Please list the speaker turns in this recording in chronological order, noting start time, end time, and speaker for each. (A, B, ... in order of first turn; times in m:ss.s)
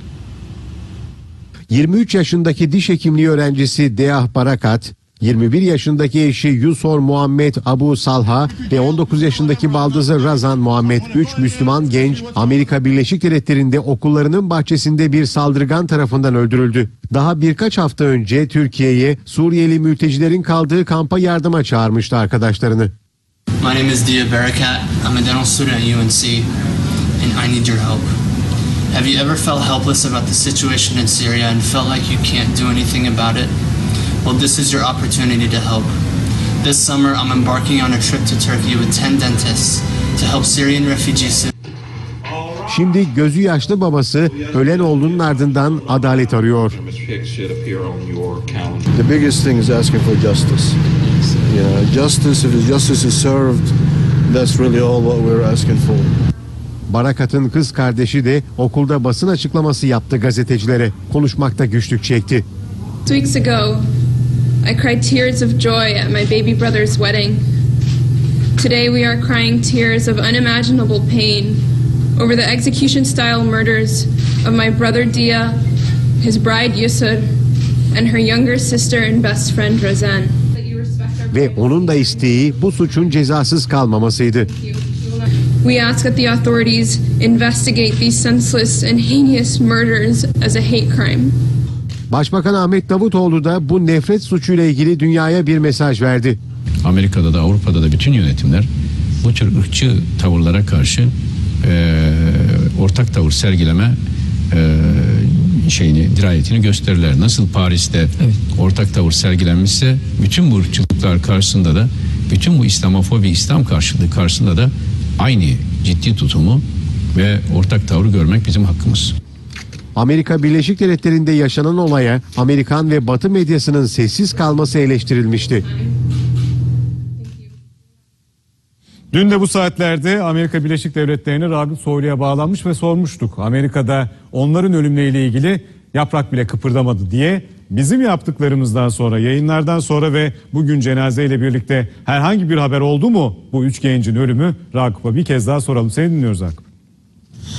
0:01.7-0:22.9 A
0:23.6-0:26.5 B
0:27.2-0:28.1 B
0:28.9-0:33.5 B
0:34.2-0:35.9 B
0:36.6-0:41.5 B
0:42.3-0:43.0 C
0:42.7-0:46.8 A
0:44.3-0:48.9 C
0:49.0-0:50.7 D
0:51.5-0:53.6 D
0:54.3-0:56.1 D
0:56.9-1:02.4 A
1:03.0-1:03.8 E
1:04.6-1:07.4 E
1:08.6-1:11.6 E
1:12.2-1:15.6 E
1:16.2-1:17.3 E
1:17.9-1:22.7 E
1:21.3-1:24.5 A
1:24.5-1:31.3 E
1:32.1-1:36.4 A
1:36.8-1:38.7 F
1:39.2-1:44.0 F
1:44.5-1:56.6 F
1:57.1-1:59.1 F
2:00.0-2:05.6 A
2:09.1-2:26.6 G